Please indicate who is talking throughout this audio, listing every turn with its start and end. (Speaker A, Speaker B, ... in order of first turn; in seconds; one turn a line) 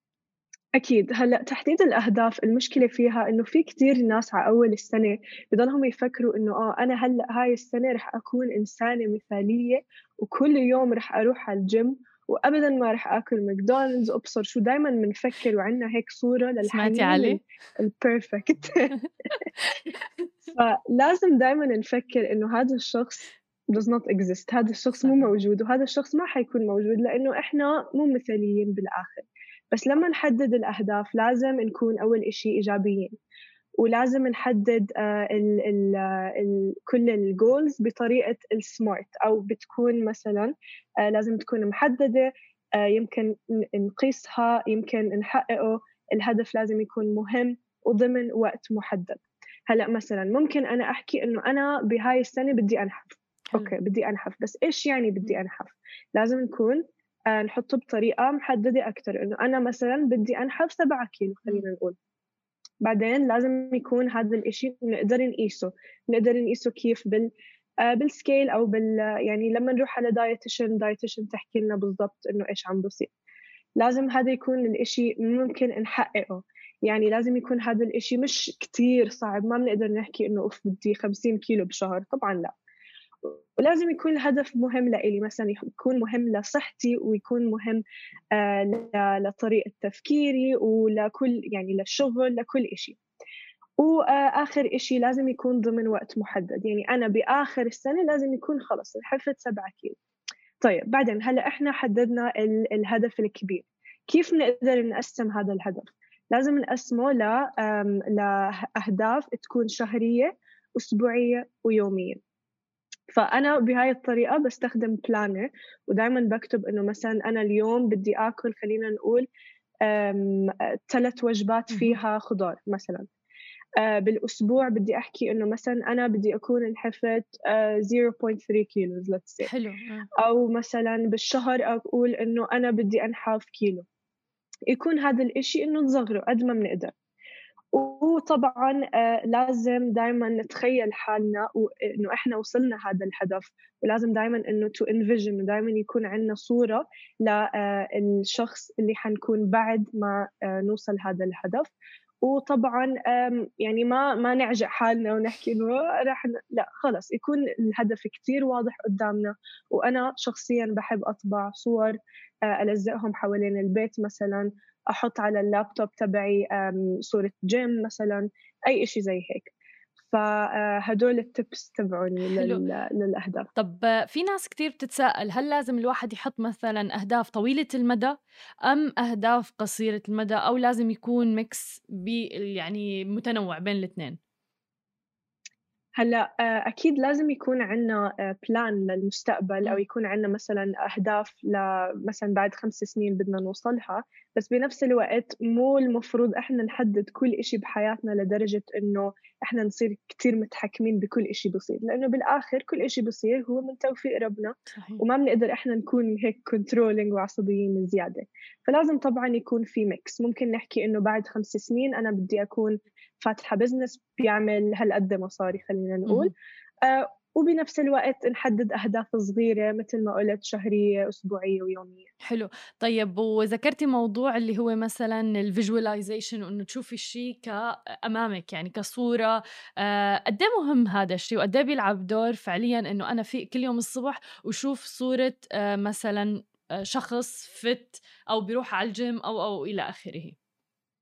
Speaker A: 0.8-19.0
Speaker B: 16.6-17.4
Speaker B: 19.6-19.9
Speaker A: 20.5-33.2
Speaker B: 25.0-25.3
Speaker A: 33.8-62.0
Speaker A: 62.8-67.3
Speaker A: 67.8-73.1
Speaker A: 73.8-82.5
Speaker A: 83.2-87.8
Speaker A: 88.3-93.0
Speaker A: 93.8-100.0
Speaker A: 100.6-112.2
Speaker A: 113.1-119.3
Speaker A: 119.8-123.1
Speaker B: 121.7-122.0
Speaker A: 123.8-129.5
Speaker B: 129.4-130.1
Speaker A: 130.2-133.9
Speaker A: 134.7-136.9
Speaker A: 137.7-151.7
Speaker A: 152.2-169.5
Speaker A: 170.1-173.5
Speaker B: 172.3-172.6
Speaker B: 173.6-184.2
Speaker A: 186.0-222.1
Speaker B: 204.7-205.0
Speaker B: 216.1-216.3
Speaker B: 222.2-240.4